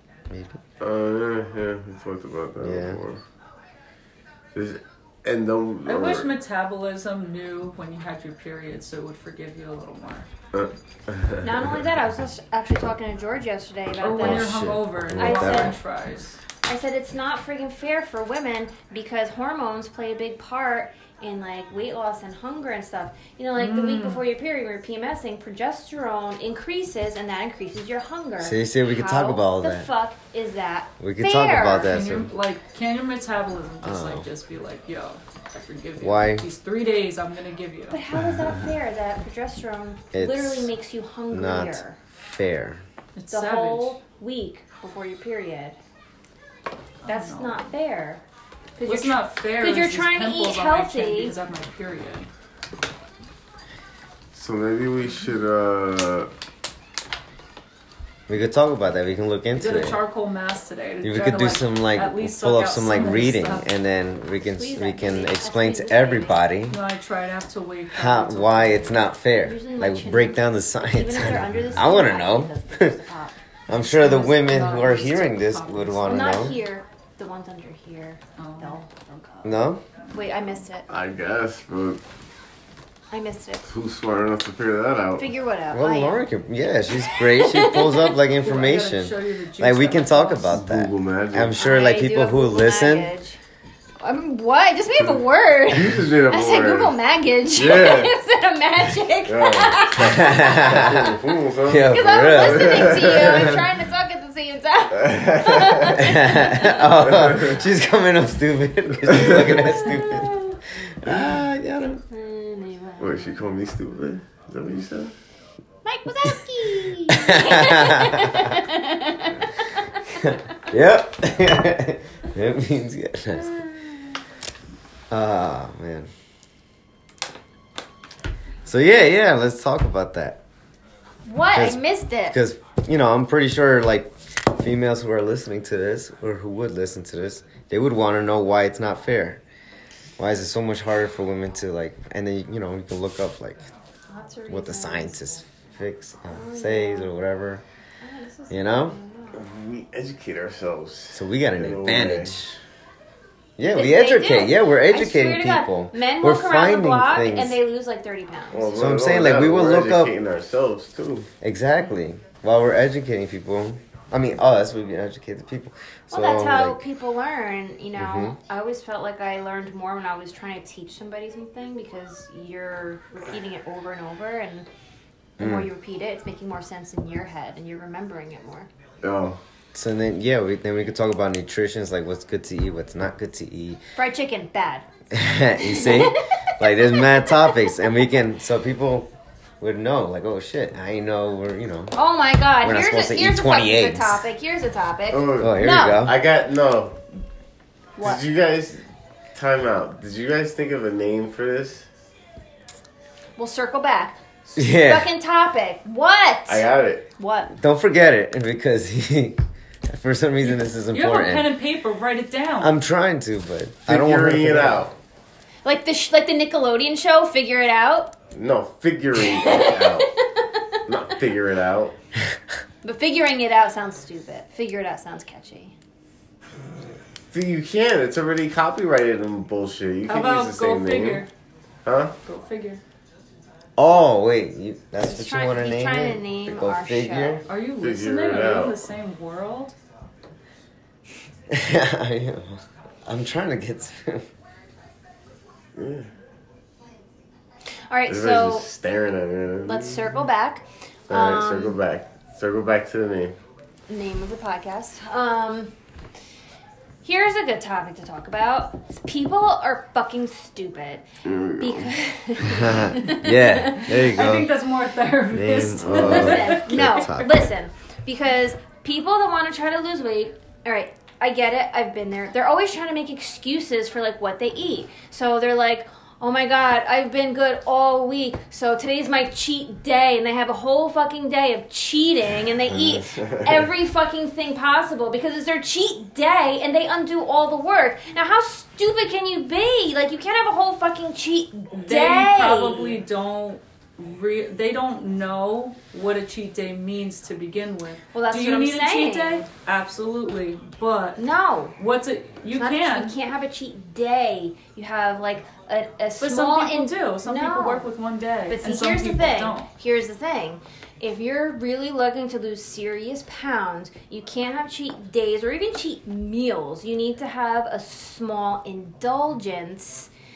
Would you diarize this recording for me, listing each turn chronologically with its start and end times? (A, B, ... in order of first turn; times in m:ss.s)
0:00.3-0:00.6 A
0:00.8-0:03.2 B
0:02.6-0:03.0 A
0:04.5-0:06.3 B
0:05.8-0:10.3 C
0:10.5-0:11.8 B
0:11.4-0:15.8 D
0:14.0-0:16.4 C
0:14.2-0:15.8 A
0:16.6-0:32.0 D
0:23.6-0:24.2 C
0:28.4-0:29.9 A
0:31.0-0:32.3 A
0:31.9-0:38.0 C
0:33.8-0:34.2 A
0:36.0-0:36.5 A
0:37.9-0:42.0 D
0:40.1-0:40.7 A
0:41.3-0:42.8 A
0:43.1-0:44.0 C
0:43.3-0:45.8 D
0:47.0-0:47.6 C
0:47.1-0:48.2 D
0:48.8-0:51.3 D
0:48.8-0:52.3 C
0:54.3-0:56.3 B
0:58.3-1:00.0 A
0:59.5-1:03.7 C
1:01.0-1:06.8 A
1:04.4-1:06.5 D
1:06.7-1:09.0 C
1:07.9-1:13.0 A
1:09.4-1:13.4 D
1:13.7-1:16.5 A
1:13.7-1:16.4 C
1:16.0-1:20.9 D
1:18.4-1:18.8 C
1:19.4-1:19.8 A
1:20.9-1:22.0 B
1:23.1-1:23.7 D
1:23.6-1:25.3 B
1:25.2-1:26.2 D
1:25.7-1:33.1 A
1:27.1-1:28.1 D
1:28.4-1:30.6 C
1:30.5-1:31.6 B
1:31.6-1:33.4 D
1:34.0-1:41.2 D
1:35.7-1:37.0 B
1:37.5-1:38.1 B
1:39.2-1:43.6 B
1:40.0-1:43.6 A
1:41.8-1:46.8 D
1:44.9-1:46.1 B
1:45.9-1:52.0 A
1:46.8-1:47.6 B
1:49.0-1:49.8 B
1:49.5-1:50.6 D
1:52.1-1:53.4 D
1:53.0-1:55.1 B
1:55.8-2:00.4 D
1:57.1-1:58.5 A
2:00.2-2:03.5 A
2:03.3-2:04.2 D
2:05.1-2:06.1 A
2:08.6-2:10.4 A
2:11.2-2:12.4 D
2:11.5-2:19.4 A
2:20.2-2:23.7 A
2:24.1-2:25.2 D
2:24.5-2:27.6 A
2:26.3-2:27.1 D
2:28.0-2:29.4 D
2:28.5-2:29.0 A
2:29.3-2:32.4 B
2:31.1-2:32.6 A
2:33.6-2:37.6 A
2:33.6-2:38.7 D
2:38.5-2:41.3 B
2:38.8-2:40.1 A
2:41.4-2:46.8 A
2:46.1-2:54.7 D
2:48.0-2:48.3 A
2:55.4-2:58.7 D
2:55.4-2:55.7 A
2:59.0-2:59.4 B
2:59.7-3:03.8 A
3:04.0-3:04.8 D
3:05.1-3:11.9 A
3:05.6-3:07.8 D
3:11.9-3:16.1 D
3:12.6-3:14.2 A
3:15.1-3:17.0 B
3:15.4-3:16.2 A
3:18.0-3:21.9 B
3:23.4-3:27.5 D
3:24.6-3:25.1 A
3:26.5-3:27.0 B
3:27.5-3:31.5 A
3:30.8-3:32.7 C
3:32.6-3:34.9 A
3:33.9-3:34.9 B
3:35.6-3:38.1 D
3:38.3-3:40.1 B
3:39.2-3:40.8 D
3:40.9-3:42.0 B
3:42.8-3:45.7 D
3:47.3-3:51.2 B
3:50.0-3:51.3 C
3:51.8-3:52.1 B
3:52.2-3:52.8 C
3:53.8-3:57.4 A
3:55.0-3:57.4 D
3:57.5-3:59.8 C
3:57.8-3:58.8 B
4:01.5-4:04.2 A
4:05.7-4:06.1 B
4:07.9-4:08.7 D
4:08.1-4:10.1 B
4:09.6-4:11.8 D
4:11.1-4:13.3 B
4:13.9-4:15.7 D
4:17.0-4:21.0 D
4:21.2-4:21.9 B
4:21.6-4:24.0 D
4:22.4-4:24.5 A
4:23.9-4:27.1 C
4:25.3-4:27.5 A
4:25.8-4:26.3 B
4:25.9-4:53.0 D
4:42.7-4:43.6 B
4:51.7-5:01.2 C
4:58.1-4:59.5 D
5:01.2-5:01.8 D
5:01.8-5:03.2 C
5:02.5-5:07.9 D
5:06.2-5:09.7 C
5:08.5-5:20.1 D